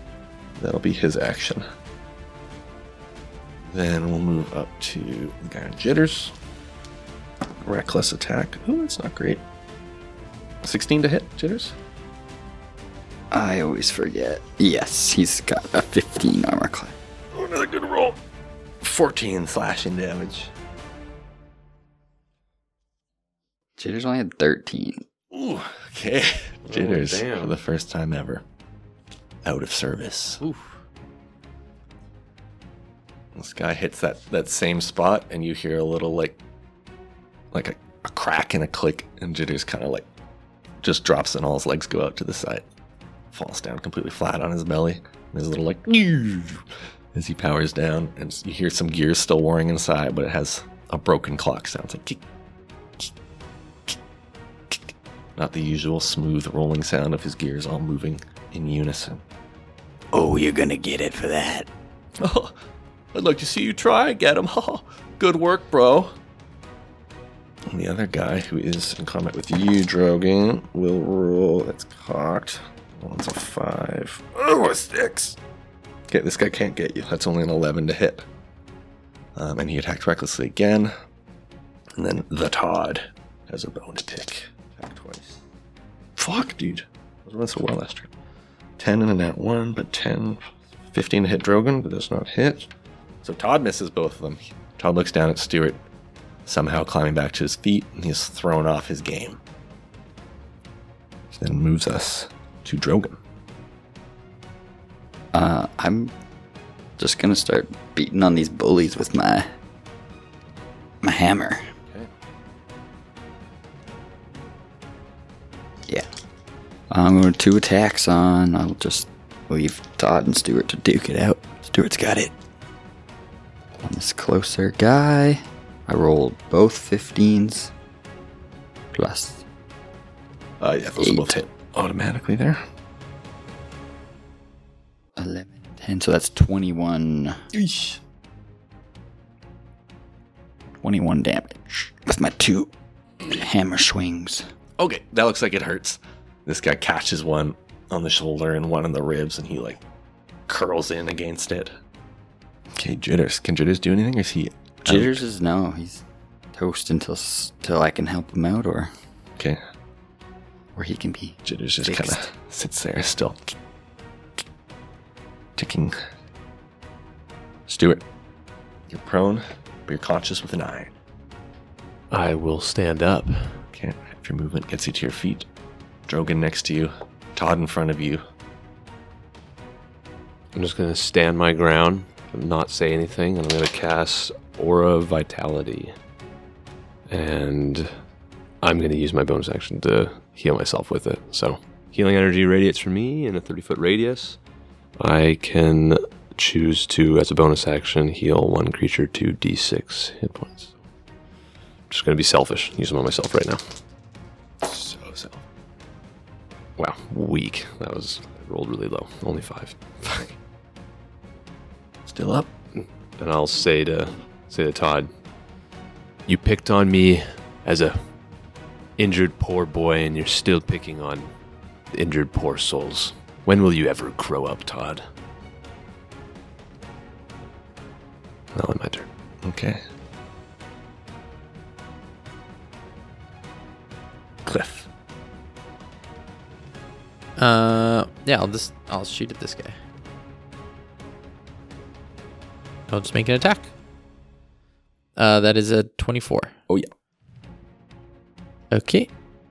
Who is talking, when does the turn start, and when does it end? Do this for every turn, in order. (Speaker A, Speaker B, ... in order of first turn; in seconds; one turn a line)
Speaker A: 0.6-1.6
Speaker A: 3.6-6.3
Speaker A: 7.6-9.4
Speaker A: 10.6-11.7
Speaker B: 13.3-16.9
Speaker A: 17.3-18.2
Speaker A: 18.8-20.5
Speaker B: 23.8-25.0
Speaker A: 25.3-28.4
Speaker C: 26.7-27.6
Speaker A: 29.4-30.4
Speaker D: 30.4-30.7
Speaker A: 33.3-36.4
Speaker A: 37.5-40.0
Speaker A: 40.8-42.6
Speaker A: 43.3-46.6
Speaker A: 47.1-52.2
Speaker A: 55.4-59.2
Speaker B: 60.1-61.7
Speaker A: 62.2-62.6
Speaker A: 63.1-66.1
Speaker A: 67.7-75.4
Speaker A: 76.1-78.2
Speaker A: 79.3-80.9
Speaker A: 82.0-85.4
Speaker A: 86.2-88.1
Speaker A: 88.8-92.7
Speaker A: 93.2-95.8
Speaker A: 96.5-99.4
Speaker A: 101.3-103.2
Speaker B: 105.3-106.1
Speaker B: 107.0-109.5
Speaker B: 111.0-111.7
Speaker B: 116.9-122.3
Speaker B: 123.8-127.7
Speaker B: 128.9-129.4
Speaker A: 130.6-132.6
Speaker B: 131.0-131.3
Speaker B: 135.2-137.4
Speaker A: 137.5-138.0
Speaker B: 140.8-142.7
Speaker B: 143.2-144.4
Speaker A: 144.8-149.8
Speaker A: 150.5-151.7
Speaker A: 152.8-155.2
Speaker B: 154.8-156.0
Speaker B: 156.5-158.9
Speaker B: 160.7-162.2
Speaker A: 161.4-163.5
Speaker A: 165.6-165.9
Speaker A: 167.7-168.0
Speaker A: 168.9-170.9
Speaker C: 172.1-173.6
Speaker A: 173.7-175.5
Speaker A: 176.1-178.2
Speaker C: 180.5-185.9
Speaker C: 187.1-187.9
Speaker C: 188.6-194.4
Speaker C: 195.0-200.7
Speaker C: 201.9-203.6
Speaker A: 204.6-205.4
Speaker C: 206.8-210.3
Speaker A: 212.1-212.5
Speaker C: 212.7-215.1
Speaker C: 216.3-218.0
Speaker C: 219.0-221.3
Speaker C: 221.9-225.0
Speaker C: 228.5-229.1
Speaker A: 229.4-229.8
Speaker A: 234.4-234.9
Speaker D: 237.4-239.8
Speaker D: 242.9-243.7
Speaker D: 245.2-246.5
Speaker D: 248.7-249.1